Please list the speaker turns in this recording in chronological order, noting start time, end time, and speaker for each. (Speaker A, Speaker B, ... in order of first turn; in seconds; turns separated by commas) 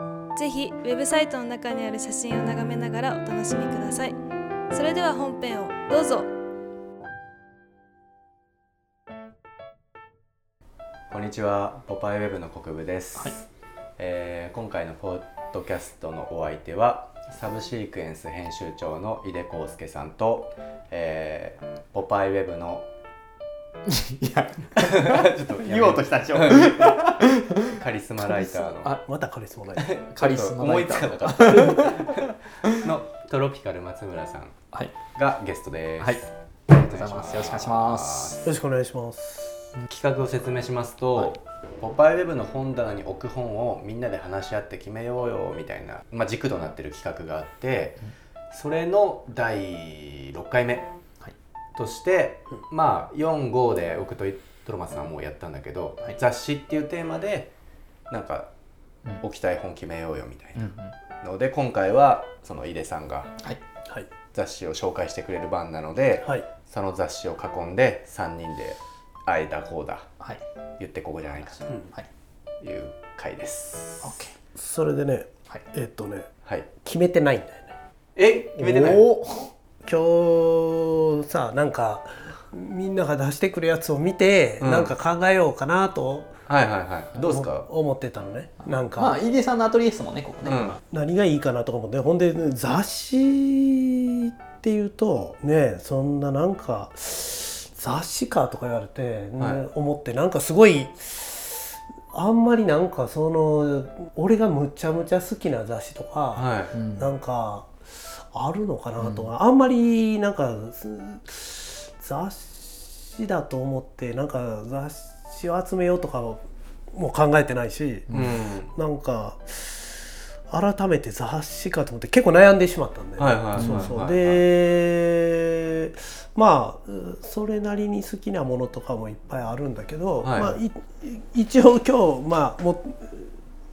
Speaker A: 0.3-4.2, Speaker A: 4.7-6.3, Speaker B: 11.1-13.4, Speaker B: 14.0-22.9, Speaker C: 23.9-29.0, Speaker B: 24.8-27.2, Speaker B: 27.8-29.0, Speaker D: 29.0-29.9, Speaker B: 29.8-34.5, Speaker C: 30.1-32.8, Speaker B: 35.1-38.4, Speaker C: 36.0-38.4, Speaker D: 38.4-39.6, Speaker B: 39.9-48.0, Speaker B: 48.5-50.9, Speaker B: 51.8-57.5, Speaker B: 58.1-58.5, Speaker B: 59.2-60.6, Speaker C: 60.6-60.9, Speaker B: 61.2-63.4, Speaker B: 64.3-70.1, Speaker B: 70.8-71.7, Speaker B: 72.6-74.1, Speaker C: 74.0-74.3, Speaker D: 74.6-76.3, Speaker D: 76.8-77.8, Speaker B: 78.2-79.0, Speaker C: 78.6-79.5, Speaker D: 79.8-86.3, Speaker B: 84.6-84.9, Speaker B: 86.5-87.7, Speaker D: 87.2-89.2, Speaker C: 88.6-90.8, Speaker B: 90.5-90.8, Speaker D: 90.9-107.7, Speaker B: 99.4-99.6, Speaker B: 106.3-106.7, Speaker C: 106.7-107.1, Speaker D: 108.3-116.4, Speaker C: 109.0-109.3, Speaker D: 116.9-118.1, Speaker C: 118.1-118.3, Speaker B: 118.1-118.7, Speaker D: 118.7-119.9, Speaker D: 120.5-133.3, Speaker B: 123.2-124.4, Speaker C: 123.6-124.0, Speaker B: 130.2-130.6